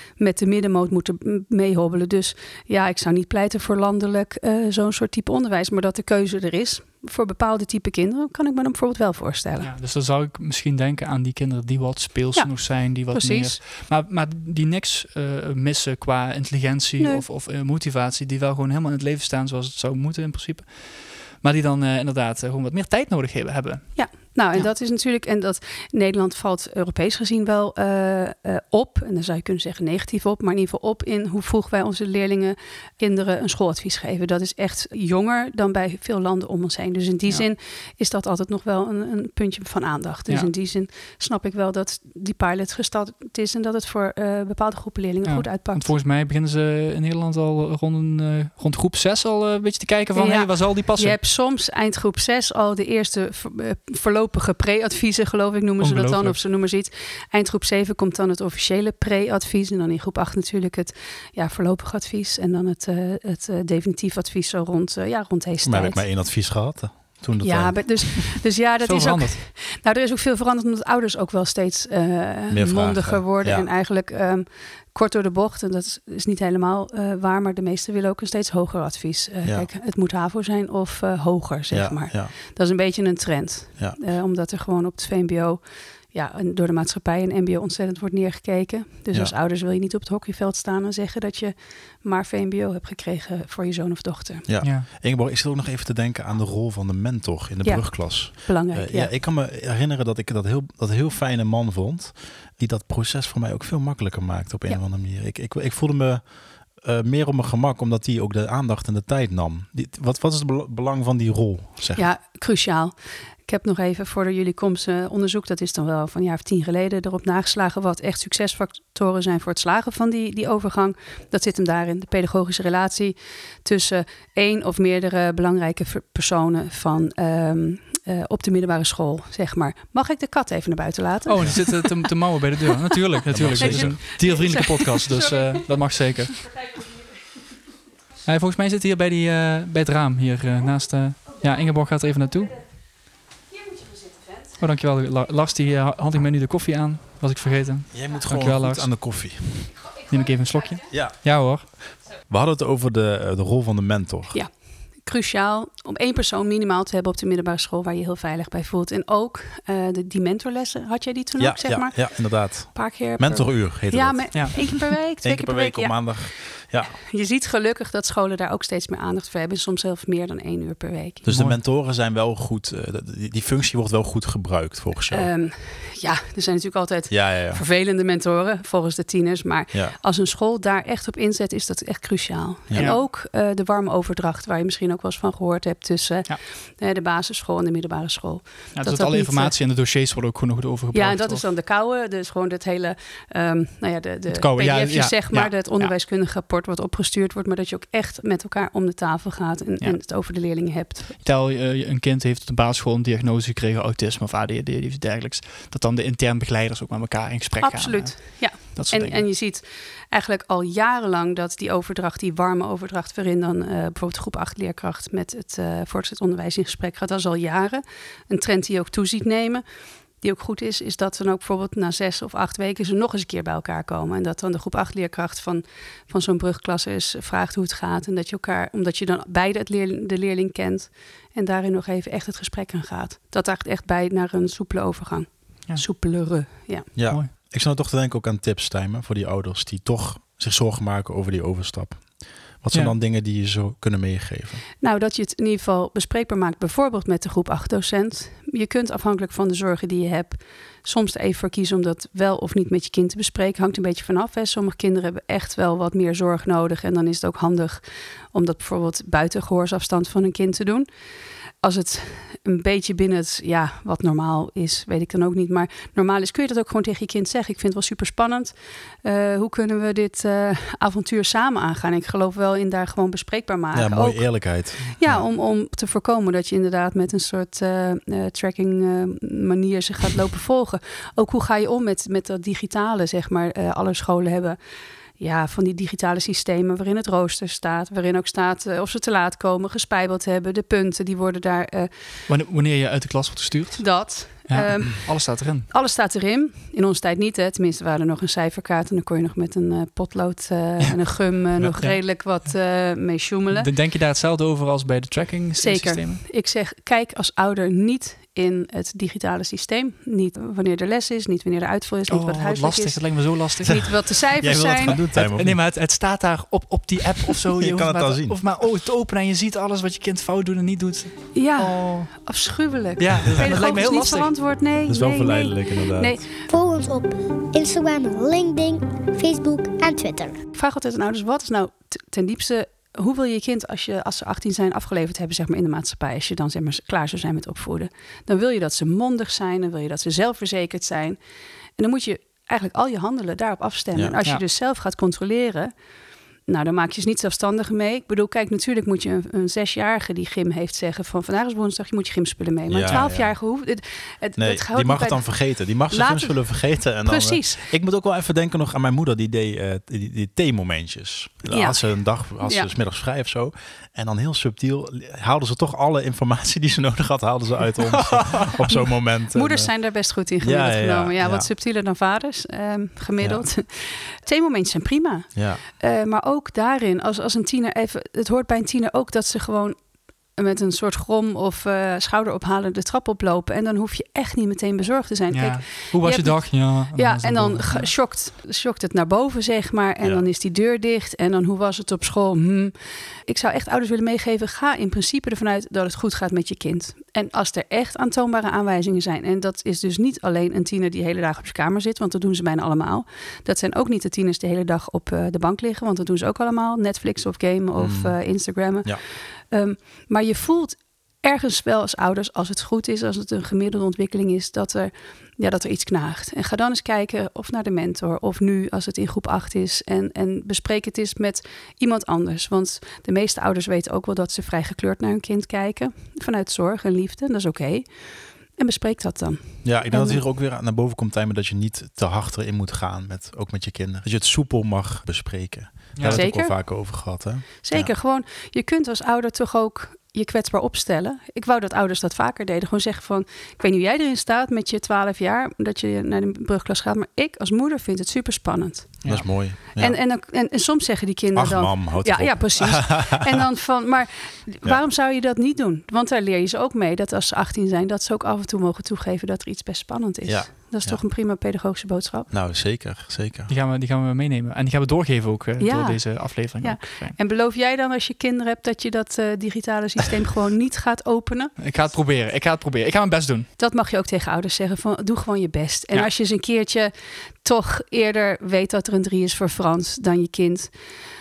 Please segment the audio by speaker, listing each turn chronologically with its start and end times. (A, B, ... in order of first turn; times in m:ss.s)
0:00.2-0:09.7 A
0:09.6-0:24.7 B
0:12.3-0:13.6 A
0:23.9-0:45.9 A
0:45.2-0:51.2 B
0:50.1-1:06.0 A
0:55.8-0:56.4 B
1:05.6-1:08.1 C
1:07.4-1:34.4 A
1:08.8-1:09.4 B
1:12.5-1:13.7 C
1:21.7-1:22.3 C
1:34.5-1:52.1 C
1:34.6-1:34.9 B
1:37.6-1:39.1 A
1:52.0-1:52.9 A
1:53.5-2:12.0 A
2:11.3-2:16.4 B
2:13.3-2:14.1 C
2:13.5-2:15.6 A
2:18.2-2:22.6 B
2:24.6-2:29.0 B
2:27.9-2:29.8 C
2:30.0-2:31.7 B
2:30.9-2:31.2 C
2:32.3-2:34.4 C
2:34.3-2:51.2 A
2:41.4-2:46.9 C
2:51.2-2:55.3 C
2:51.3-2:51.6 B
2:55.1-3:09.6 A
2:57.1-2:57.6 C
3:02.7-3:03.0 C
3:02.7-3:03.0 B
3:08.7-3:11.4 B
3:10.9-3:21.2 A
3:14.3-3:15.9 B
3:21.2-3:29.3 B
3:27.6-3:39.6 A
3:40.2-3:56.9 A
3:56.9-4:04.6 C
4:04.8-4:20.9 A
4:21.6-4:44.6 A
4:33.7-4:35.2 C
4:45.2-4:51.9 A
4:52.3-4:55.7 B
4:53.8-5:03.7 A
5:00.8-5:02.5 B
5:03.5-5:06.2 B
5:05.6-5:15.0 A
5:12.1-5:22.2 B
5:13.7-5:15.6 C
5:17.5-5:18.4 C
5:21.3-5:26.3 A
5:23.0-5:24.3 B
5:24.9-5:26.2 C
5:26.5-5:30.4 D
5:30.5-5:41.2 A
5:41.8-5:45.7 A
5:46.4-5:57.6 A
5:52.7-5:53.4 C
5:52.8-5:53.1 B
5:54.4-6:09.7 C
6:01.5-6:02.7 A
6:08.7-6:19.8 A
6:10.4-6:11.5 C
6:13.2-6:13.4 C
6:15.3-6:15.6 C
6:20.3-6:32.7 A
6:25.3-6:27.9 B
6:30.0-6:30.2 C
6:33.3-7:07.9 A
6:47.8-6:48.1 C
7:08.5-7:10.2 A
7:09.6-7:17.9 C
7:16.0-7:16.3 B
7:16.1-7:42.3 A
7:29.0-7:29.3 B
7:29.0-7:30.0 C
7:31.3-7:33.2 C
7:40.2-7:41.0 C
7:42.3-7:43.5 C
7:43.5-7:47.2 B
7:45.6-7:51.7 A
7:51.6-7:53.5 B
7:53.6-8:00.7 A